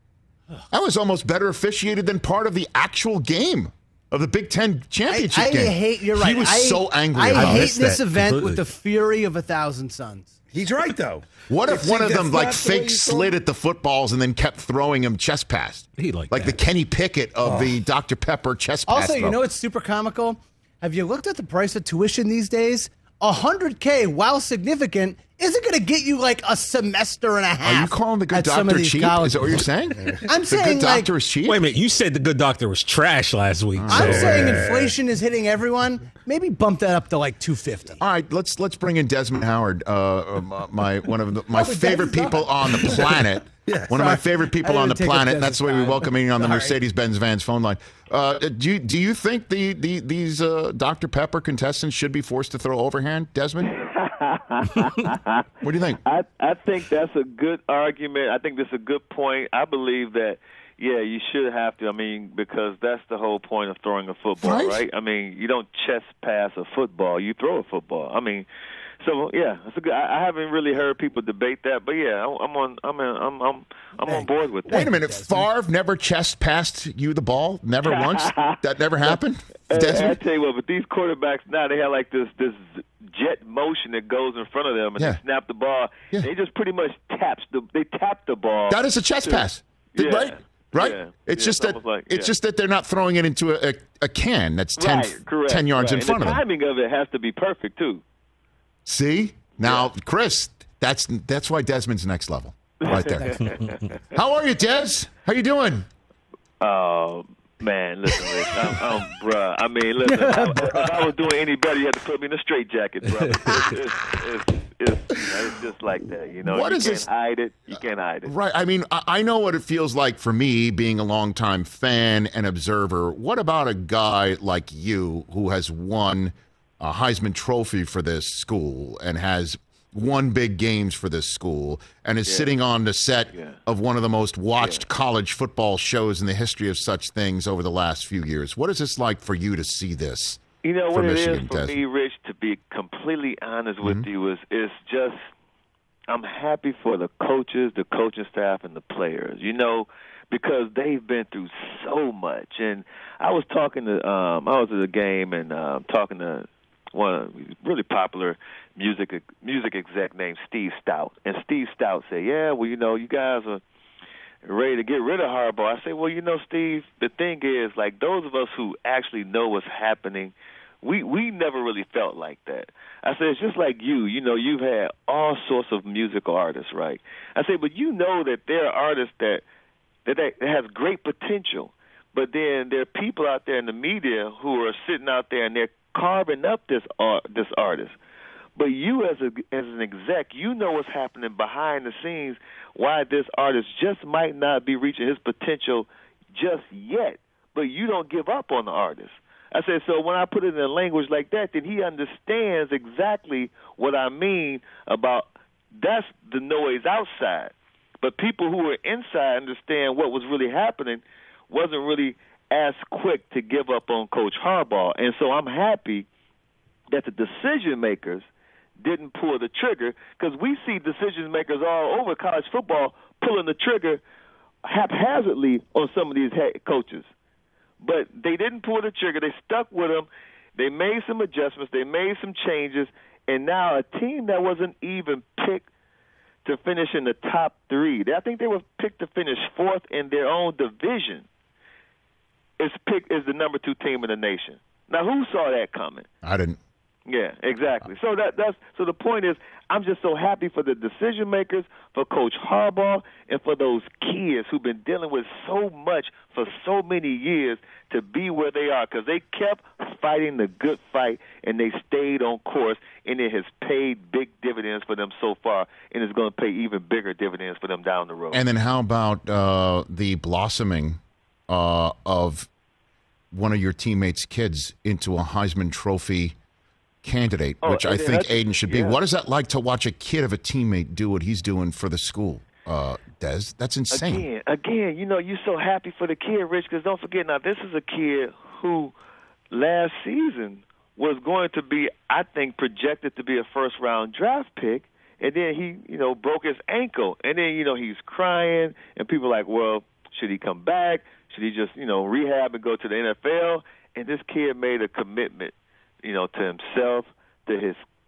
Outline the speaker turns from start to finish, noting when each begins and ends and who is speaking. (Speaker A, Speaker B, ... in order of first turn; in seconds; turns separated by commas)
Speaker A: 0.7-7.8, Speaker B: 5.1-10.3, Speaker C: 7.3-8.6, Speaker D: 10.5-13.3, Speaker A: 11.5-19.4, Speaker C: 16.0-16.6, Speaker D: 17.4-17.8, Speaker B: 18.9-29.6, Speaker A: 27.6-31.6, Speaker B: 30.2-31.1, Speaker C: 31.4-34.6, Speaker A: 33.8-34.6, Speaker B: 33.9-38.0, Speaker D: 33.9-34.9, Speaker A: 38.0-53.7, Speaker B: 41.5-43.1, Speaker D: 43.6-44.0, Speaker B: 43.9-46.8, Speaker E: 53.6-55.4, Speaker A: 55.6-56.0, Speaker E: 56.0-68.5, Speaker A: 64.4-64.8, Speaker E: 69.0-74.9, Speaker B: 74.0-75.5, Speaker A: 74.7-80.2, Speaker E: 77.8-79.2, Speaker E: 79.7-92.3, Speaker A: 88.7-96.4, Speaker E: 94.8-98.0, Speaker A: 98.9-103.5, Speaker E: 99.6-99.9, Speaker E: 102.8-103.8, Speaker A: 104.1-105.9, Speaker E: 106.6-118.3, Speaker B: 110.1-110.9, Speaker A: 116.4-117.1, Speaker A: 118.2-141.8, Speaker E: 132.2-132.5, Speaker E: 133.3-133.6, Speaker E: 134.6-134.8, Speaker E: 140.6-145.2, Speaker E: 146.1-163.6, Speaker E: 164.4-179.4, Speaker E: 180.1-187.9, Speaker E: 188.6-216.1, Speaker E: 216.9-218.2, Speaker E: 218.8-224.0, Speaker E: 224.6-227.1, Speaker E: 227.8-235.7, Speaker E: 236.4-241.2, Speaker E: 242.6-246.1, Speaker A: 246.2-246.6, Speaker E: 247.1-268.4, Speaker A: 268.3-272.5, Speaker A: 273.3-276.4, Speaker A: 277.0-284.3, Speaker E: 277.6-279.0, Speaker E: 283.9-288.9, Speaker E: 289.5-307.8